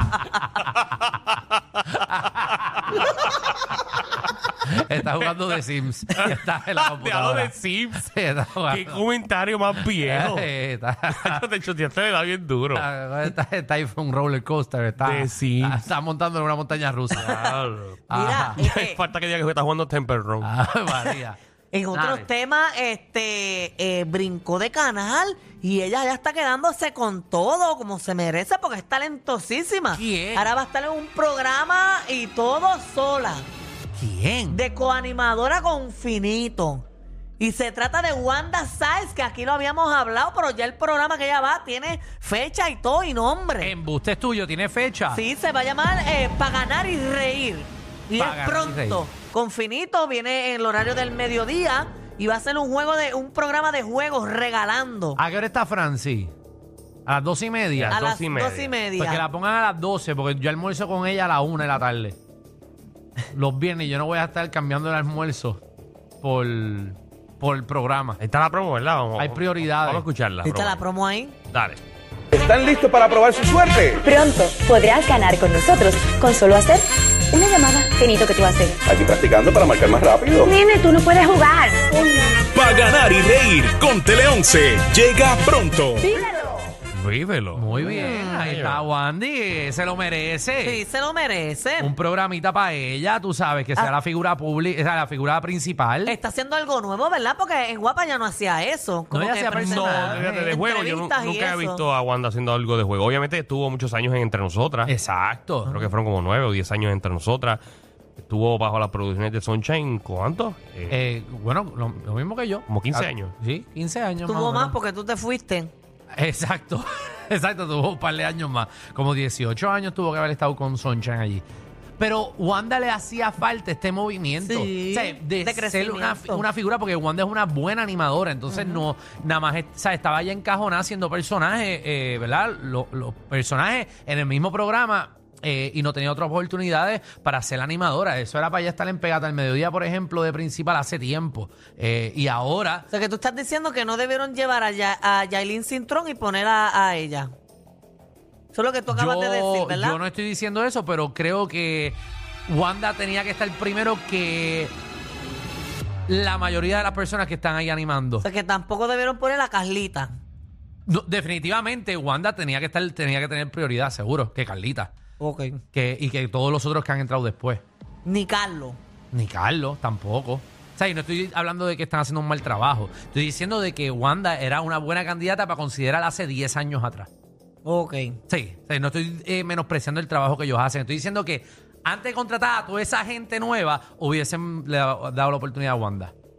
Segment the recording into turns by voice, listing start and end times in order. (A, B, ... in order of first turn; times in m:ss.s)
0:00.6-0:04.6 A
0:02.0-0:03.2 B
0:04.6-0:09.0 B
0:06.1-0:08.1 A
0:08.7-0:10.5 A
0:10.0-0:11.4 B
0:11.1-0:12.9 A
0:12.8-0:17.5 B
0:15.0-0:15.9 A
0:17.1-0:20.5 A
0:18.1-0:18.6 B
0:18.1-0:19.0 C
0:20.4-0:21.4 B
0:21.7-0:33.5 C
0:29.9-0:30.5 B
0:34.0-0:34.6 B
0:34.5-0:36.9 C
0:37.4-0:43.7 C
0:43.6-0:45.2 B
0:45.1-0:55.2 C
0:48.2-0:49.0 B
0:55.2-0:56.3 B
0:57.1-0:58.0 B
0:57.7-0:58.8 A
0:57.9-0:59.3 C
0:59.0-1:02.2 B
1:03.3-1:05.6 B
1:06.2-1:08.2 B
1:08.2-1:10.8 A
1:09.2-1:10.0 B
1:10.4-1:11.4 C
1:11.5-1:11.8 A
1:12.3-1:14.0 D
1:14.0-1:18.8 E
1:18.8-1:20.6 D
1:20.4-1:22.4 E
1:22.5-1:26.0 F
1:26.0-1:26.6 E
1:26.9-1:27.9 A
1:27.5-1:30.8 B
1:27.8-1:28.4 C
1:28.4-1:28.8 A
1:30.6-1:31.9 C
1:31.8-1:36.2 B
1:36.0-1:41.8 C
1:39.1-1:40.5 B
1:39.5-1:44.9 A
1:44.9-1:45.9 B
1:45.6-1:47.6 A
1:48.2-1:51.0 A
1:50.9-1:54.8 B
1:52.7-1:53.3 A
1:54.2-1:55.7 C
1:56.2-2:01.4 B
2:02.0-2:22.9 B
2:04.4-2:06.5 C
2:08.5-2:08.8 C
2:22.9-2:27.3 C
2:28.5-2:30.0 C
2:28.9-2:34.7 B
2:36.1-2:38.3 B
2:38.2-2:40.1 C
2:40.9-2:44.9 B
2:45.2-2:45.6 C
2:45.7-2:47.6 B
2:48.0-2:48.8 C
2:49.1-2:57.1 B
2:57.6-2:58.2 C
2:58.3-3:06.1 B